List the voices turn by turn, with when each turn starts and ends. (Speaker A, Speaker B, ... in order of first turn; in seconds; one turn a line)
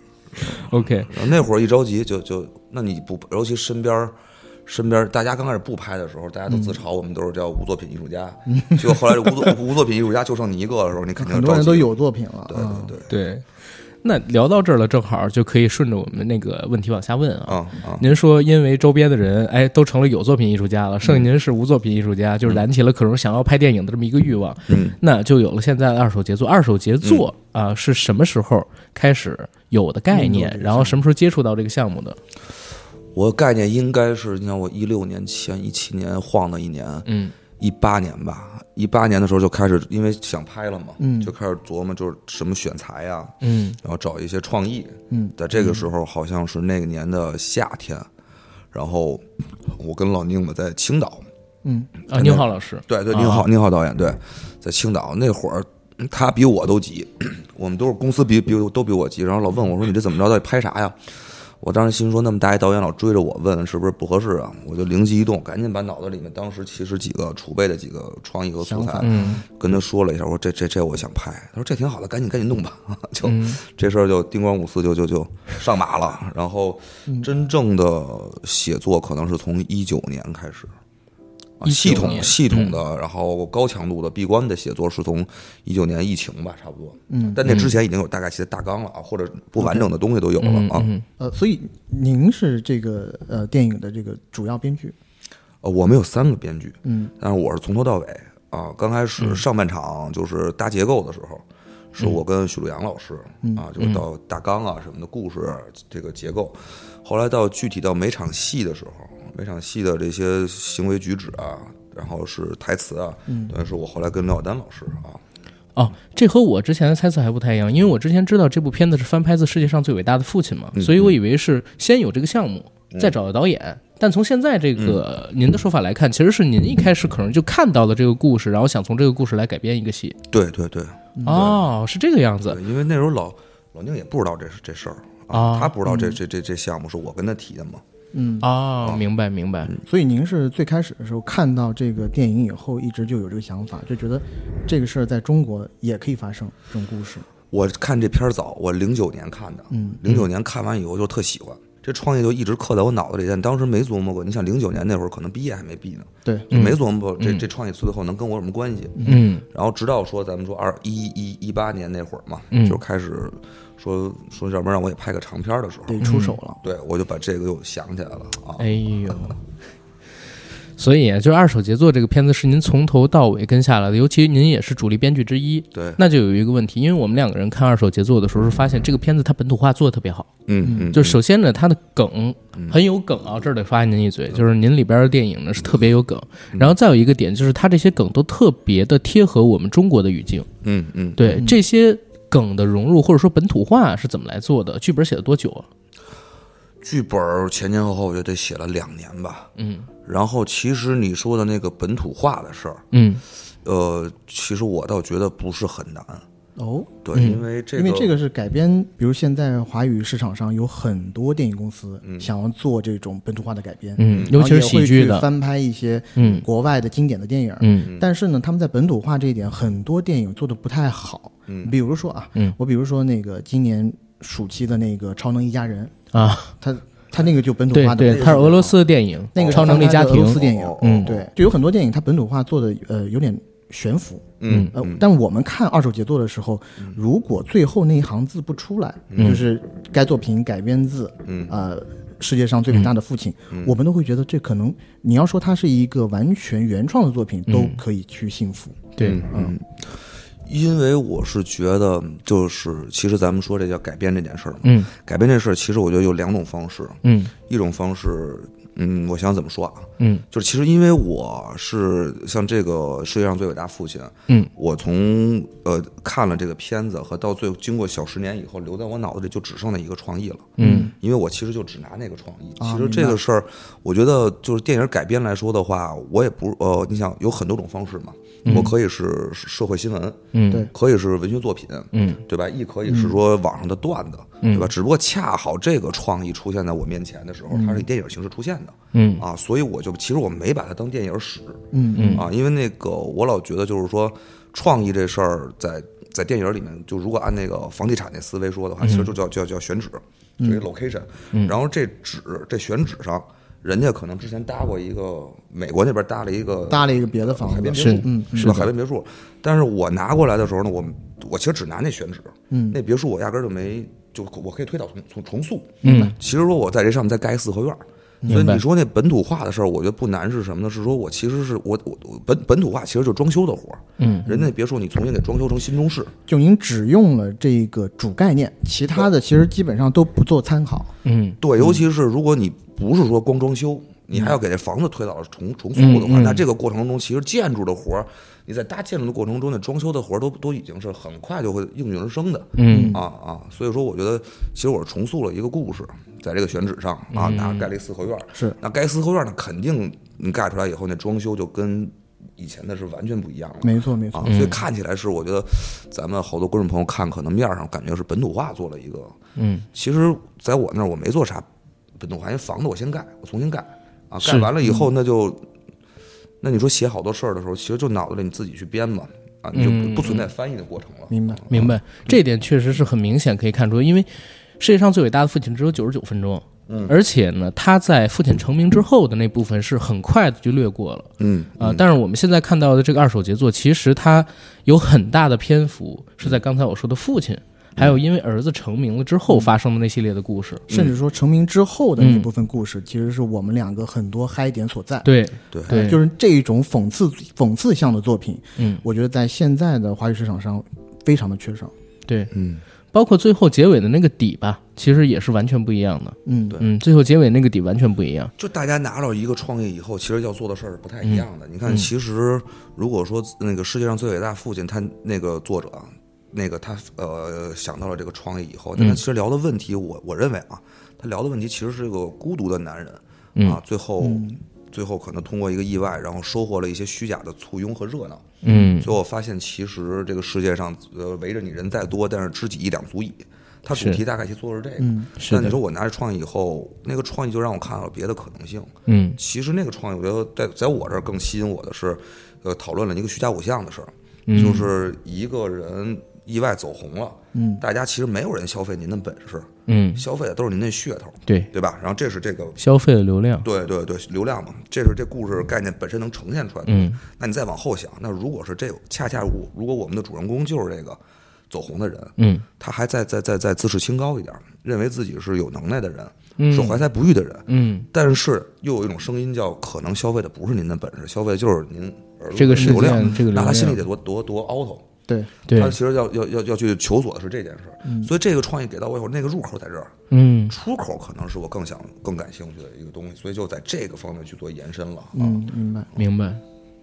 Speaker A: 0.3-1.1
Speaker B: 1.1-4.1
Speaker B: 4.7-11.9
Speaker C: 6.5-6.8
Speaker C: 8.5-9.6
Speaker C: 11.2-12.9
Speaker B: 12.5-13.1
Speaker A: 13.1-13.4
Speaker A: 14.0-32.2
Speaker B: 17.5-18.1
Speaker B: 24.7-25.0
Speaker B: 27.0-27.3
Speaker C: 30.1-30.9
Speaker B: 33.1-37.1
Speaker A: 37.0-37.4
Speaker B: 37.6-48.1
Speaker C: 41.0-41.3
Speaker A: 43.4-43.8
Speaker C: 45.1-45.4
Speaker B: 48.7-51.3
Speaker C: 51.6-51.9
Speaker A: 52.1-53.5
Speaker B: 52.1-61.0
Speaker B: 61.6-80.7
Speaker C: 68.6-69.4
Speaker A: 69.0-69.4
Speaker A: 73.2-73.6
Speaker B: 81.6-90.9
Speaker A: 81.6-82.8
Speaker C: 82.0-82.2
Speaker C: 87.1-87.4
Speaker A: 87.4-87.8
Speaker C: 89.6-89.9
Speaker A: 90.4-91.0
Speaker C: 91.2-95.0
Speaker B: 95.6-115.2
Speaker C: 96.8-97.1
Speaker C: 113.3-113.5
Speaker A: 115.8-130.2
Speaker B: 120.8-121.1
Speaker B: 130.3-131.6
Speaker C: 131.2-131.4
Speaker A: 131.2-132.6
Speaker B: 132.4-137.8
Speaker A: 135.3-135.7
Speaker C: 135.8-136.2
Speaker C: 138.1-138.5
Speaker A: 138.4-139.7
Speaker C: 139.8-147.3
Speaker B: 147.5-166.0
Speaker C: 149.7-150.0
Speaker C: 156.2-156.5
Speaker A: 156.5-157.4
Speaker A: 159.0-159.4
Speaker A: 162.5-162.8
Speaker C: 165.9-166.6
Speaker A: 166.0-166.4
Speaker B: 166.6-168.7
Speaker A: 168.6-169.4
Speaker A: 170.8-190.5
Speaker B: 175.7-176.0
Speaker B: 180.5-181.2
Speaker C: 180.6-180.9
Speaker B: 182.5-182.8
Speaker B: 190.6-191.4
Speaker A: 191.2-195.7
Speaker B: 196.8-199.5
Speaker A: 199.6-199.9
Speaker B: 200.0-202.8
Speaker A: 202.9-203.2
Speaker B: 203.6-206.2
Speaker C: 206.6-207.0
Speaker B: 207.0-208.1
Speaker A: 207.1-207.4
Speaker C: 207.7-226.0
Speaker B: 212.0-212.3
Speaker A: 214.0-215.3
Speaker B: 214.1-214.3
Speaker A: 216.2-216.4
Speaker B: 216.2-216.4
Speaker A: 217.6-217.9
Speaker B: 221.5-221.8
Speaker A: 226.1-226.5
Speaker C: 226.6-228.7
Speaker A: 227.7-231.1
Speaker B: 228.1-228.8
Speaker B: 229.3-231.3
Speaker C: 229.3-249.5
Speaker B: 234.4-235.1
Speaker A: 234.5-234.7
Speaker B: 239.1-239.4
Speaker A: 239.2-239.4
Speaker B: 241.2-241.5
Speaker B: 243.5-243.8
Speaker A: 247.5-247.8
Speaker A: 249.0-249.2
Speaker B: 249.0-326.1
Speaker A: 254.6-254.9
Speaker A: 257.0-257.3
Speaker A: 260.0-260.2
Speaker A: 270.6-270.9
Speaker C: 270.6-270.9
Speaker C: 272.6-273.2
Speaker A: 278.4-278.7
Speaker A: 280.3-280.7
Speaker A: 281.9-282.2
Speaker C: 282.9-283.2
Speaker A: 284.4-284.7
Speaker C: 287.5-287.9
Speaker A: 288.9-289.2
Speaker C: 291.7-292.2
Speaker A: 291.9-292.2
Speaker A: 298.8-299.1
Speaker C: 300.4-300.6
Speaker C: 306.7-308.7
Speaker A: 307.7-308.7
Speaker C: 312.5-312.8
Speaker A: 315.8-316.1
Speaker C: 315.8-316.1
Speaker A: 318.3-318.6
Speaker A: 324.0-324.3
Speaker C: 326.3-330.9
Speaker A: 331.0-331.4
Speaker B: 331.4-359.1
Speaker A: 335.7-336.4
Speaker A: 342.6-342.9
Speaker C: 342.7-343.0
Speaker A: 347.1-347.7
Speaker C: 353.6-354.3
Speaker A: 354.2-354.6
Speaker A: 359.4-359.6
Speaker B: 359.7-361.4
Speaker B: 362.0-365.4
Speaker A: 364.2-364.5
Speaker B: 366.4-371.8
Speaker A: 369.5-370.3
Speaker C: 371.1-371.5
Speaker A: 371.5-390.6
Speaker B: 376.7-376.9
Speaker B: 381.2-381.8
Speaker B: 390.7-390.9
Speaker C: 390.7-395.1
Speaker A: 392.0-392.3
Speaker A: 395.0-396.0
Speaker B: 395.5-395.8
Speaker C: 395.7-401.7
Speaker A: 398.6-398.8
Speaker B: 402.3-402.6
Speaker A: 402.9-408.3
Speaker C: 406.2-406.6
Speaker B: 408.4-452.6
Speaker A: 411.0-411.9
Speaker C: 424.0-424.4
Speaker A: 428.4-428.9
Speaker A: 433.7-434.0
Speaker C: 434.8-435.1
Speaker A: 435.2-435.6
Speaker A: 438.9-439.2
Speaker A: 444.3-444.7
Speaker C: 447.3-447.6
Speaker A: 449.7-450.0
Speaker A: 452.6-453.4
Speaker B: 453.4-461.0
Speaker A: 456.6-457.0
Speaker B: 461.5-474.9
Speaker A: 462.2-462.4
Speaker A: 466.4-466.8
Speaker A: 467.5-467.9
Speaker A: 472.3-473.8
Speaker C: 472.6-473.1
Speaker A: 475.5-475.8
Speaker B: 475.5-479.9
Speaker C: 477.8-478.1
Speaker A: 480.1-480.5
Speaker B: 480.5-485.4
Speaker C: 485.1-485.9
Speaker A: 485.9-486.4